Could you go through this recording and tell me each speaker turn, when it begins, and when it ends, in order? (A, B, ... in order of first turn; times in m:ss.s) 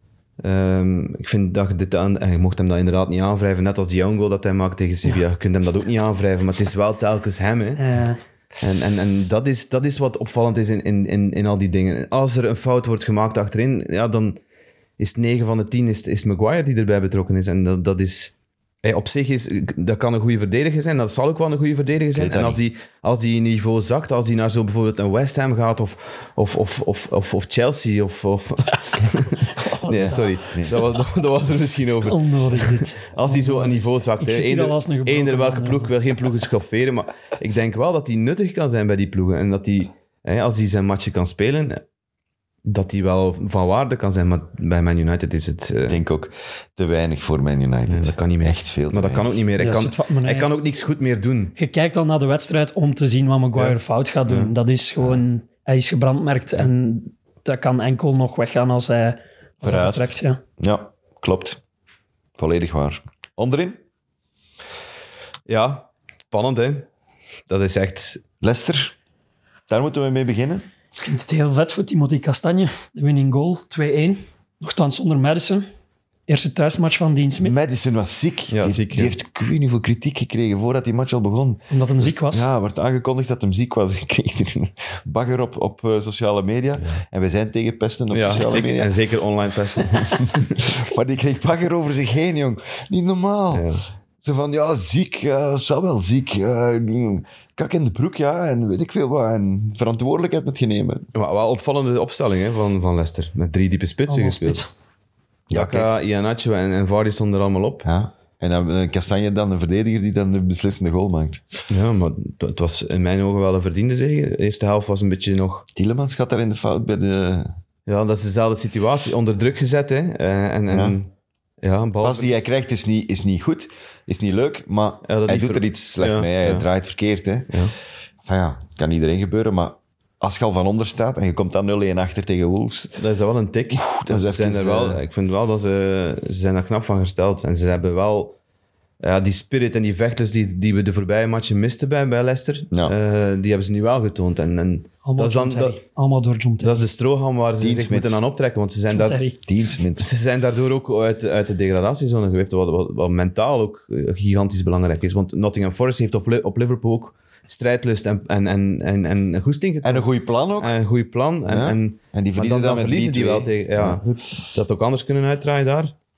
0:00.4-0:07.8 A
0:07.8-0:08.2 B
0:08.6-0:14.4 A
0:15.0-0:41.8 A
0:22.1-0:22.6 C
0:29.5-0:30.4 B
0:30.0-0:30.8 C
0:32.0-0:35.9 B
0:42.7-0:46.0 A
0:45.9-0:49.4 C
0:47.9-0:51.6 A
0:49.6-0:50.5 B
0:51.6-1:00.4 B
0:53.6-0:54.5 A
0:59.6-1:01.6 C
1:02.4-1:03.8 C
1:05.5-1:06.9 A
1:07.5-1:08.2 A
1:08.4-1:09.0 C
1:09.7-1:10.6 C
1:11.0-1:15.7 B
1:16.3-1:17.6 B
1:17.4-1:29.0 C
1:18.5-1:19.1 A
1:21.7-1:22.5 B
1:28.1-1:30.7 A
1:29.9-1:33.7 C
1:33.5-1:33.8 A
1:34.2-1:41.1 C
1:41.1-1:44.7 A
1:44.1-1:44.7 B
1:45.5-1:45.9 C
1:45.5-1:47.8 A
1:47.8-1:51.4 C
1:51.7-1:55.6 A
1:55.7-1:57.6 C
1:57.9-2:01.1 A
2:00.7-2:01.0 C
2:01.6-2:02.4 A
2:02.0-2:07.5 C
2:05.1-2:06.7 A
2:08.2-2:13.0 C
2:13.0-2:18.4 A
2:13.7-2:15.0 C
2:19.0-2:25.8 A
2:25.0-2:26.8 B
2:26.6-2:29.2 A
2:27.6-2:28.2 C
2:28.9-2:29.4 B
2:29.4-2:30.1 C
2:30.0-2:45.9 A
2:39.8-2:40.8 C
2:41.4-2:44.0 C